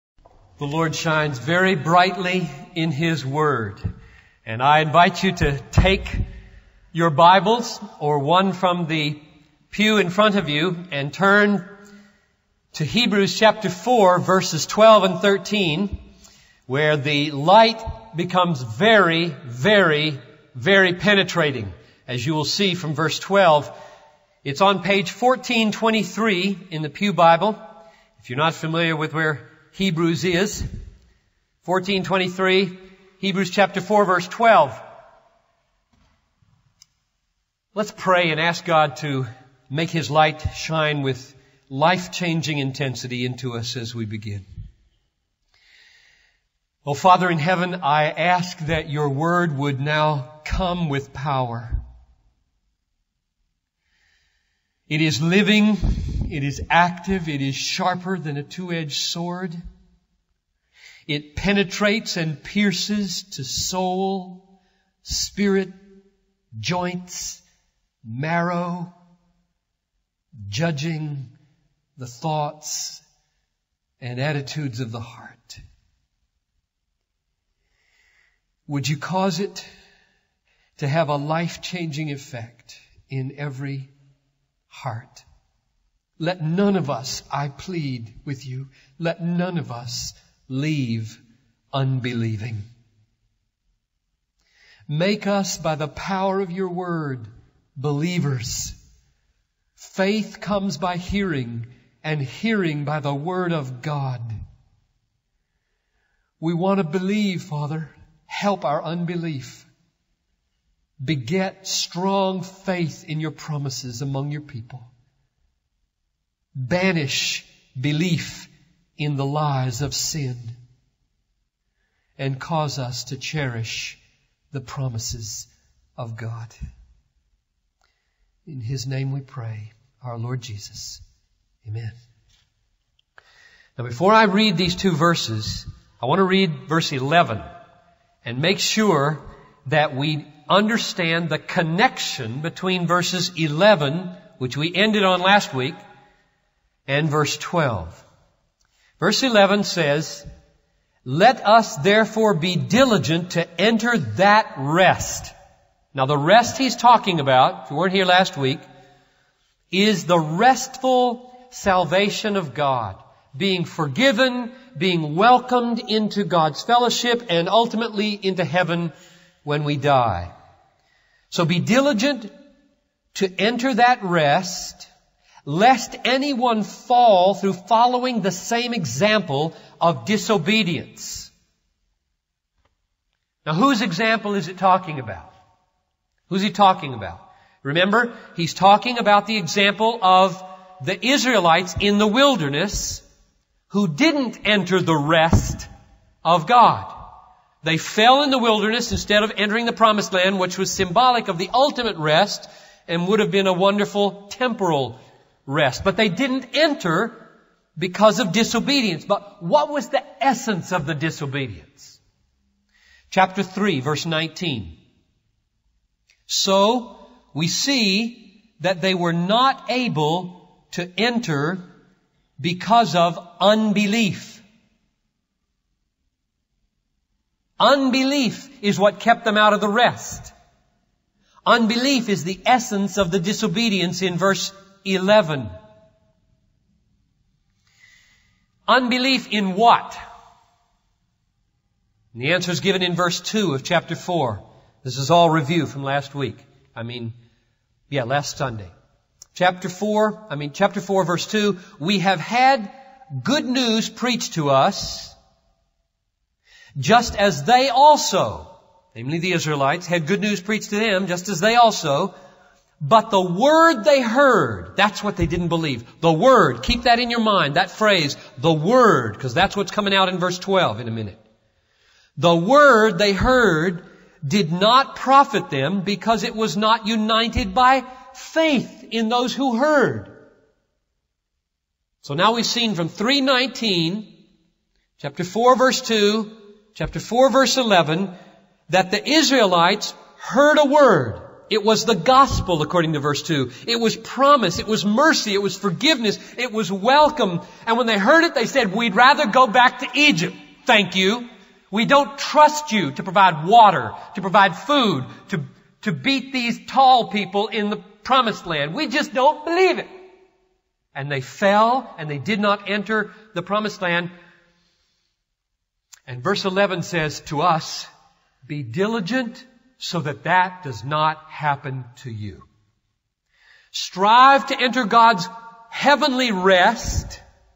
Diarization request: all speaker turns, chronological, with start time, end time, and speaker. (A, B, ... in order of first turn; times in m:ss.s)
0:00.6-0:03.8 A
0:04.4-0:06.2 A
0:06.9-0:11.7 A
0:12.7-0:16.0 A
0:16.7-0:23.7 A
0:24.4-0:27.6 A
0:28.2-0:30.7 A
0:31.6-0:34.8 A
0:37.7-0:44.4 A
0:46.8-0:51.8 A
0:54.9-0:59.6 A
1:01.1-1:04.4 A
1:05.0-1:05.8 A
1:06.5-1:07.4 A
1:08.0-1:08.9 A
1:10.5-1:11.3 A
1:12.0-1:13.0 A
1:14.0-1:15.6 A
1:18.7-1:19.7 A
1:20.8-1:23.9 A
1:24.7-1:25.2 A
1:26.2-1:31.2 A
1:31.7-1:32.6 A
1:34.9-1:38.8 A
1:39.8-1:44.4 A
1:46.4-1:49.7 A
1:51.0-1:54.9 A
1:56.6-2:00.6 A
2:02.2-2:04.0 A
2:04.5-2:06.5 A
2:08.4-2:11.0 A
2:11.6-2:12.0 A
2:13.8-2:17.4 A
2:18.2-2:25.8 A
2:26.9-2:28.0 A
2:29.0-2:30.3 A
2:31.0-2:35.3 A
2:35.9-2:38.6 A
2:39.7-2:48.9 A
2:49.4-2:50.3 A
2:51.3-2:52.3 A
2:53.1-2:54.9 A
2:55.4-3:01.3 A
3:03.4-3:05.3 A
3:06.3-3:13.0 A
3:13.7-3:15.7 A
3:16.2-3:17.1 A
3:17.6-3:27.2 A
3:27.8-3:32.0 A
3:33.1-3:34.8 A
3:36.3-3:41.6 A
3:42.4-3:44.4 A
3:47.6-3:50.3 A
3:51.4-3:55.5 A
3:58.7-4:00.0 A
4:02.1-4:07.1 A
4:07.9-4:08.7 A
4:09.3-4:15.2 A
4:16.8-4:22.1 A
4:22.8-4:31.2 A
4:32.2-4:40.1 A
4:42.0-4:44.1 A
4:45.0-4:48.1 A
4:48.7-5:09.9 A
5:10.9-5:14.1 A
5:16.1-5:17.9 A
5:18.4-5:22.4 A
5:23.7-5:27.2 A